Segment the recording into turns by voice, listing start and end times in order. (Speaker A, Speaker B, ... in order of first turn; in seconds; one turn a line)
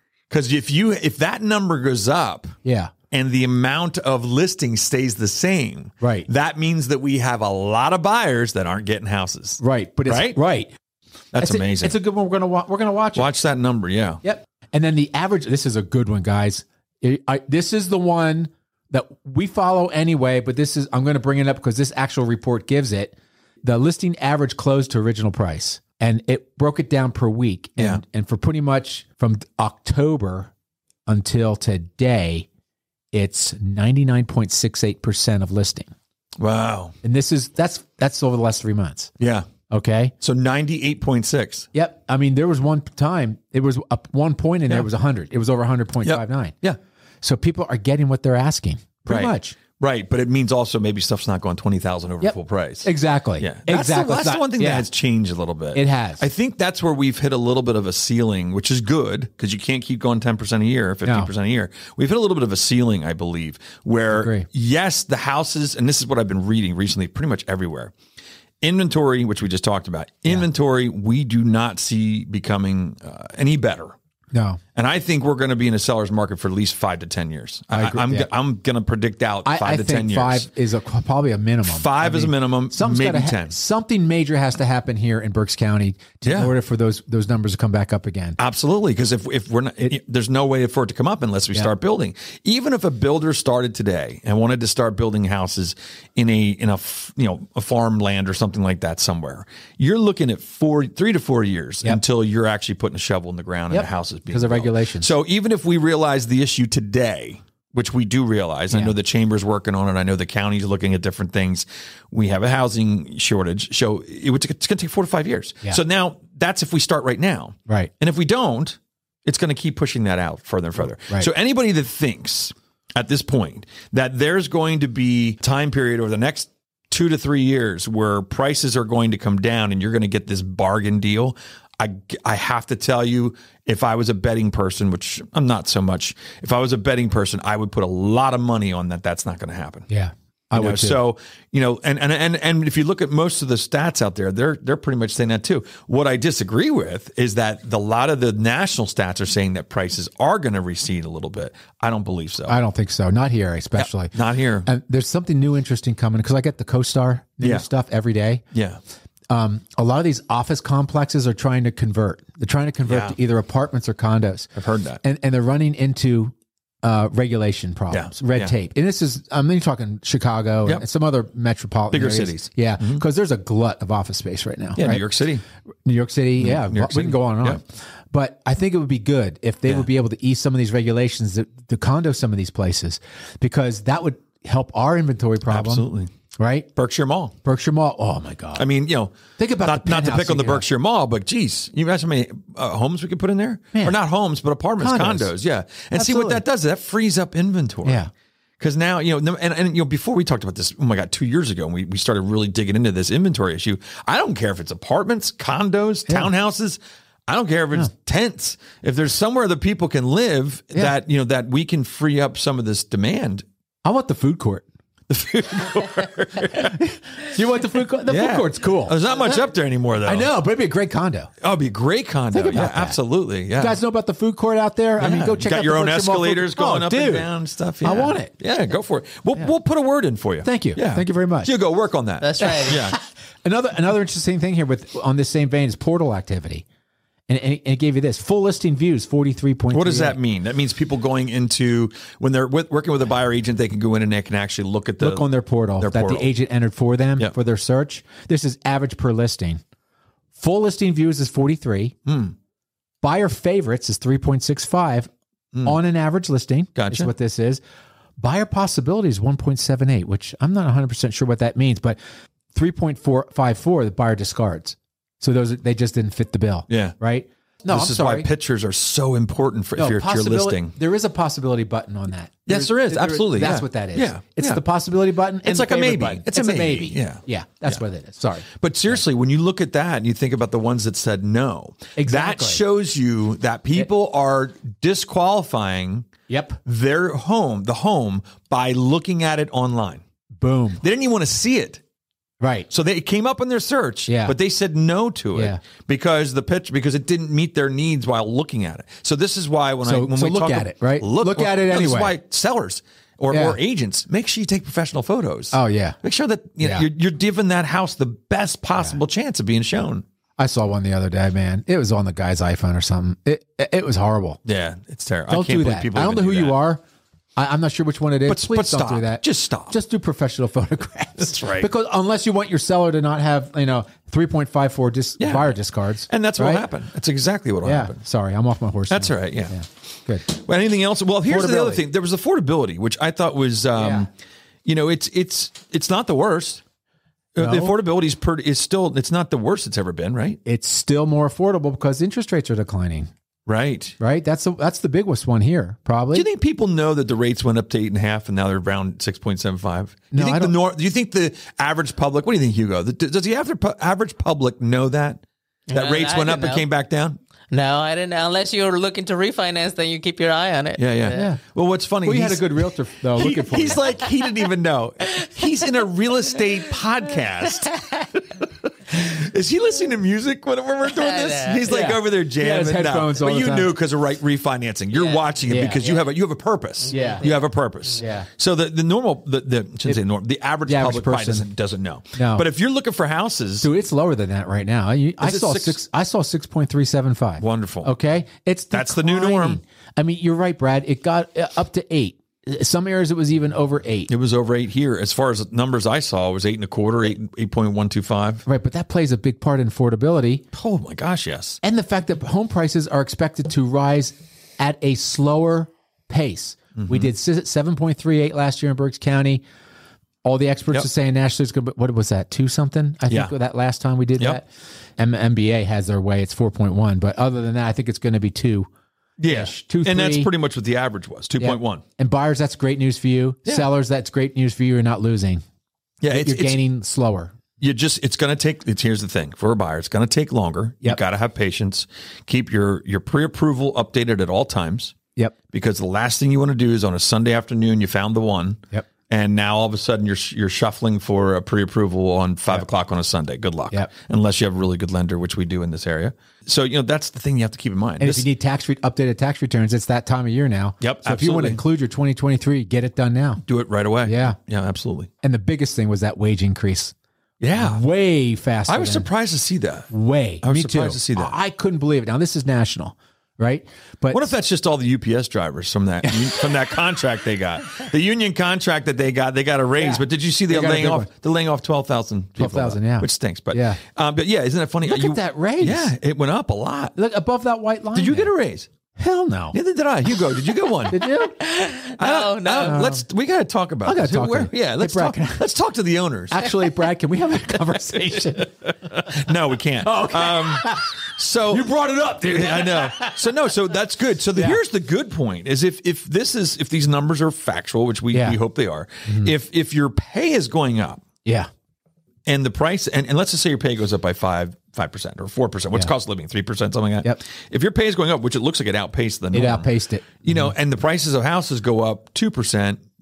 Speaker A: 0.3-2.6
Speaker B: 2.6-2.9
Speaker A: 3.1-10.4
Speaker B: 6.0-6.3
Speaker B: 9.6-10.7
Speaker A: 11.3-12.0
Speaker B: 11.4-13.3
Speaker A: 13.2-14.2
Speaker B: 14.2-30.5
Speaker B: 31.1-32.5
Speaker B: 33.1-35.9
Speaker A: 36.4-37.0
Speaker B: 37.0-39.1
Speaker A: 39.2-39.5
Speaker B: 39.7-40.1
Speaker A: 40.2-41.7
Speaker B: 41.7-46.6
Speaker A: 46.0-46.8
Speaker B: 47.2-49.6
Speaker A: 49.1-67.9
Speaker B: 52.2-54.9
Speaker B: 55.7-56.2
Speaker B: 61.0-61.3
Speaker B: 64.1-64.5
Speaker A: 68.6-74.0
Speaker B: 74.3-74.6
Speaker A: 74.8-80.5
Speaker B: 77.7-78.3
Speaker B: 79.5-88.4
Speaker A: 81.7-83.6
Speaker A: 86.2-86.5
Speaker A: 88.4-139.9
Speaker B: 103.7-105.1
Speaker B: 108.7-109.0
Speaker B: 139.9-141.0
Speaker A: 140.5-152.6
Speaker B: 152.5-154.1
Speaker A: 153.8-154.7
Speaker B: 154.7-158.4
Speaker A: 157.4-157.7
Speaker A: 158.5-158.8
Speaker B: 159.3-164.5
Speaker A: 162.9-163.2
Speaker A: 164.6-165.0
Speaker B: 165.0-166.3
Speaker B: 166.8-175.1
Speaker A: 167.9-168.6
Speaker A: 171.9-173.0
Speaker A: 174.8-175.4
Speaker B: 175.9-185.9
Speaker A: 176.4-177.6
Speaker A: 185.5-186.1
Speaker B: 186.4-186.7
Speaker A: 186.8-187.3
Speaker B: 187.4-188.7
Speaker A: 188.6-198.1
Speaker B: 189.4-190.7
Speaker B: 194.8-195.3
Speaker B: 195.9-196.4
Speaker B: 197.8-198.1
Speaker A: 198.6-213.4
Speaker B: 206.1-206.3
Speaker B: 213.8-214.7
Speaker A: 215.1-216.8
Speaker B: 216.8-219.5
Speaker A: 218.1-220.3
Speaker B: 220.0-221.3
Speaker A: 221.4-223.8
Speaker B: 222.3-223.0
Speaker B: 223.6-228.3
Speaker A: 225.0-233.0
Speaker B: 230.4-231.5
Speaker C: 232.2-232.8
Speaker B: 232.4-236.7
Speaker B: 237.3-240.2
Speaker A: 239.7-246.3
Speaker B: 245.0-249.6
Speaker B: 250.4-252.0
Speaker A: 252.1-252.3
Speaker B: 253.0-255.1
Speaker B: 255.7-257.6
Speaker A: 256.8-257.1
Speaker B: 258.2-262.0
Speaker B: 262.5-268.3
Speaker A: 266.7-266.9
Speaker A: 267.7-270.8
Speaker B: 269.8-279.0
Speaker A: 272.5-274.6
Speaker A: 275.4-277.8
Speaker A: 278.6-286.1
Speaker B: 282.0-282.6
Speaker B: 286.3-286.6
Speaker A: 286.6-290.0
Speaker B: 290.4-290.8
Speaker A: 290.8-291.8
Speaker B: 292.4-292.7
Speaker A: 292.7-310.0
Speaker B: 294.1-294.4
Speaker B: 295.3-295.6
Speaker B: 299.8-302.2
Speaker B: 303.3-303.6
Speaker B: 305.5-306.0
Speaker B: 306.6-306.9
Speaker B: 310.4-314.4
Speaker A: 314.4-316.6
Speaker B: 315.3-316.8
Speaker B: 317.4-326.7
Speaker A: 318.3-319.8
Speaker A: 321.2-321.7
Speaker A: 325.2-325.6
Speaker A: 326.1-328.0
Speaker B: 327.6-330.3
Speaker A: 328.9-329.6
Speaker A: 330.2-334.1
Speaker B: 331.2-331.9
Speaker B: 333.8-334.1
Speaker A: 334.6-336.6
Speaker A: 337.4-340.4
Speaker B: 337.4-337.8
Speaker B: 340.4-343.1
Speaker A: 343.5-344.0
Speaker B: 344.0-346.3
Speaker A: 346.1-357.2
Speaker B: 350.1-350.6
Speaker C: 355.7-356.7
Speaker C: 357.5-361.3
Speaker A: 360.8-383.7
Speaker B: 361.1-361.4
Speaker B: 362.0-363.8
Speaker C: 365.2-365.5
Speaker C: 370.9-372.0
Speaker B: 371.7-373.8
Speaker C: 374.9-376.1
Speaker B: 375.5-375.9
Speaker C: 376.9-377.4
Speaker B: 376.9-377.3
Speaker B: 378.0-378.3
Speaker B: 380.7-381.5
Speaker B: 382.2-382.5
Speaker B: 383.6-394.1
Speaker A: 385.2-385.8
Speaker A: 387.4-387.9
Speaker A: 388.7-389.6
Speaker A: 394.1-398.4
Speaker B: 398.5-400.4
Speaker A: 400.5-401.6
Speaker B: 401.6-409.4
Speaker A: 406.8-407.1
Speaker B: 410.2-418.7
Speaker A: 419.2-421.8
Speaker B: 419.3-420.3
Speaker B: 421.4-425.4
Speaker A: 426.0-426.6
Speaker B: 426.1-427.4
Speaker A: 427.6-434.9
Speaker A: 435.5-448.3
Speaker B: 448.0-453.4
Speaker A: 450.8-451.6
Speaker A: 453.4-455.1
Speaker B: 454.0-454.4
Speaker B: 455.2-456.9
Speaker A: 457.4-457.8
Speaker B: 457.6-459.1
Speaker A: 458.7-459.9
Speaker B: 459.9-464.3
Speaker A: 460.4-461.4
Speaker A: 464.1-477.0
Speaker B: 466.0-466.7
Speaker B: 469.8-471.1
Speaker B: 472.4-473.8
Speaker B: 474.9-475.9
Speaker B: 477.0-478.3
Speaker A: 477.9-478.7
Speaker B: 479.0-479.6
Speaker A: 479.5-481.1
Speaker B: 480.9-481.4
Speaker C: 481.1-482.9
Speaker A: 482.0-486.4
Speaker B: 482.6-483.0
Speaker B: 483.9-485.5
Speaker B: 486.3-489.0
Speaker A: 488.7-491.7
Speaker B: 489.8-490.9
Speaker B: 491.5-493.5
Speaker A: 492.2-501.0
Speaker B: 494.3-494.6
Speaker B: 498.1-498.4
Speaker B: 499.1-499.3
Speaker A: 502.3-509.7
Speaker B: 509.3-510.5
Speaker A: 510.2-512.8